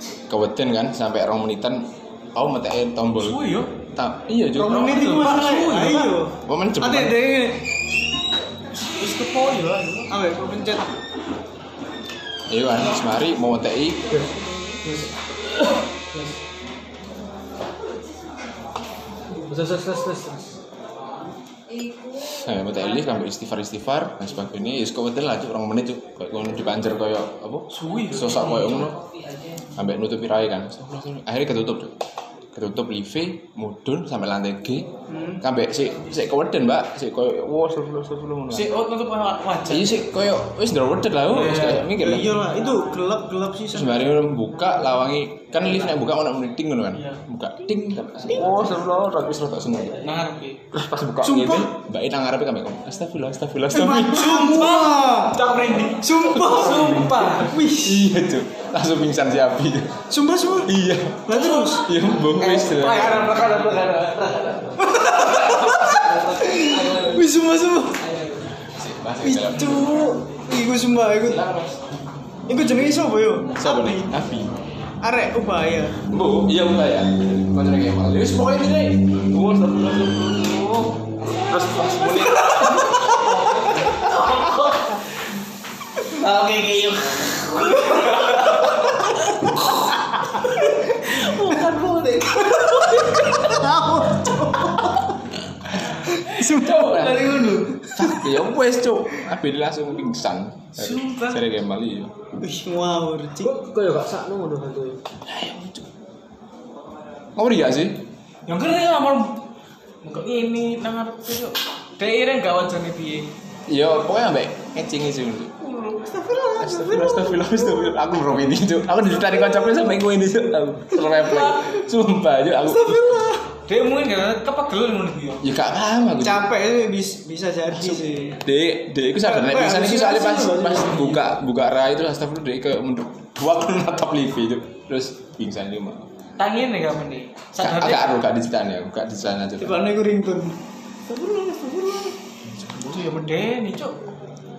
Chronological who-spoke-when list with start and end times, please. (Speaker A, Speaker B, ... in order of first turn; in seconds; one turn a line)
Speaker A: 0.3-3.4
Speaker B: 3.2-3.7
Speaker A: 4.0-5.3
Speaker C: 4.5-7.6
Speaker B: 4.8-6.2
Speaker A: 6.5-7.2
Speaker B: 9.0-10.1
Speaker C: 10.1-10.9
Speaker A: 12.5-14.3
Speaker D: 19.3-20.6
Speaker A: 22.2-29.0
Speaker B: 27.7-28.9
Speaker A: 29.8-31.9
Speaker A: 32.5-34.9
Speaker C: 35.1-35.4
Speaker A: 35.4-38.7
Speaker B: 38.5-40.0
Speaker A: 39.7-42.4
Speaker B: 41.3-41.9
Speaker C: 41.9-44.1
Speaker A: 43.7-50.0
Speaker B: 50.0-50.6
Speaker A: 50.7-54.7
Speaker C: 51.2-51.7
Speaker C: 53.7-55.4
Speaker B: 54.3-57.5
Speaker C: 56.0-58.1
Speaker D: 56.5-57.2
Speaker A: 56.7-60.0
Speaker C: 60.1-60.7
Speaker A: 60.7-63.3
Speaker C: 61.3-61.9
Speaker D: 62.4-67.2
Speaker B: 63.1-63.9
Speaker C: 64.8-68.0
Speaker D: 68.1-68.3
Speaker A: 68.7-70.0
Speaker C: 69.2-71.4
Speaker A: 71.2-71.8
Speaker C: 72.5-74.1
Speaker A: 73.6-74.5
Speaker C: 75.0-76.0
Speaker A: 76.0-83.6
Speaker B: 83.3-84.7
Speaker B: 86.1-88.6
Speaker C: 90.3-95.1
Speaker A: 91.5-91.8
Speaker C: 95.8-98.2
Speaker A: 96.5-102.1
Speaker B: 96.6-97.4
Speaker B: 100.8-101.4
Speaker C: 102.4-103.5
Speaker D: 103.4-105.0
Speaker A: 105.3-105.9
Speaker A: 107.3-108.0
Speaker B: 108.5-109.4
Speaker B: 110.0-113.3
Speaker A: 113.7-115.5
Speaker B: 115.7-116.0
Speaker C: 116.0-117.5
Speaker A: 116.6-123.3
Speaker B: 120.9-121.8
Speaker C: 122.7-123.4
Speaker B: 123.7-125.4
Speaker A: 125.4-126.5
Speaker C: 126.2-128.4
Speaker A: 127.8-136.1
Speaker C: 129.2-131.2
Speaker B: 136.4-138.1
Speaker A: 137.6-139.8
Speaker C: 139.6-142.1
Speaker B: 142.8-144.0